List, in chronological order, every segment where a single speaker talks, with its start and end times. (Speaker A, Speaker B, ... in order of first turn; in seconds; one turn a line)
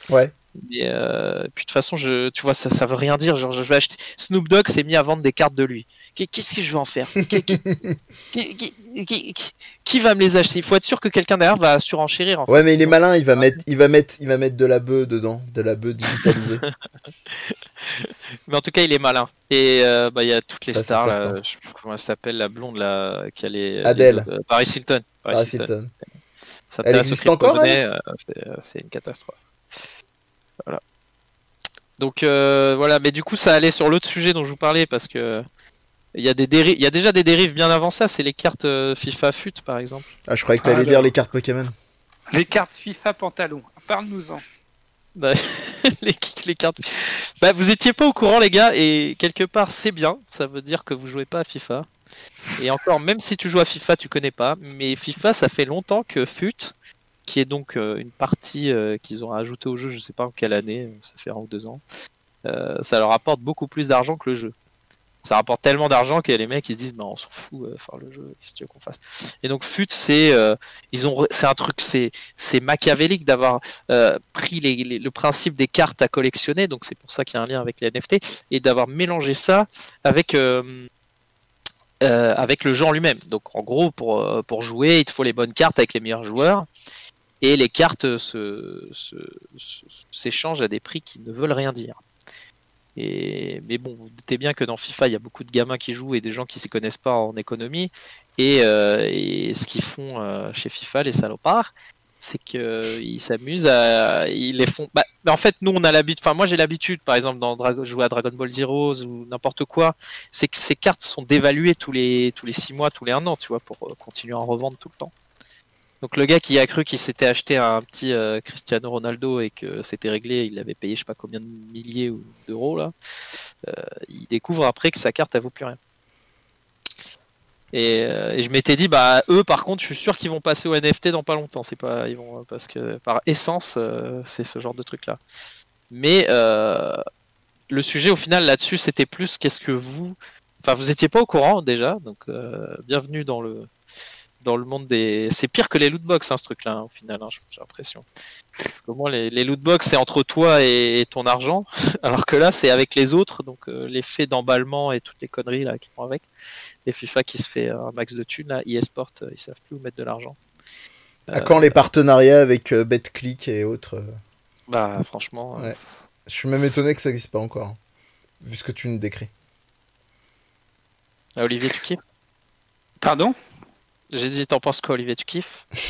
Speaker A: 0.5-7.6
Speaker B: 7.3-7.9
Speaker A: 8.3-13.6
Speaker B: 12.5-16.6
Speaker A: 17.2-25.7
Speaker B: 20.7-21.4
Speaker B: 23.8-24.3
Speaker B: 25.3-25.9
Speaker A: 26.7-29.4
Speaker B: 26.8-27.8
Speaker A: 32.0-35.4
Speaker A: 36.1-40.1
Speaker B: 40.3-41.7
Speaker C: 40.6-41.1
Speaker C: 42.3-44.4
Speaker A: 45.1-51.9
Speaker A: 52.6-56.7
Speaker A: 57.2-61.8
Speaker A: 62.4-64.5
Speaker A: 65.2-80.9
Speaker A: 82.0-86.7
Speaker A: 87.4-92.0
Speaker A: 93.0-115.1
Speaker A: 116.0-122.9
Speaker A: 123.6-125.8
Speaker A: 127.7-135.2
Speaker A: 135.9-137.0
Speaker A: 137.7-143.7
Speaker A: 144.4-148.1
Speaker A: 148.6-156.3
Speaker A: 156.8-160.4
Speaker A: 161.3-161.7
Speaker B: 161.3-164.0
Speaker A: 164.7-165.8
Speaker B: 166.3-167.8
Speaker B: 168.4-169.3
Speaker A: 171.3-172.0
Speaker C: 173.0-173.3
Speaker A: 174.1-175.6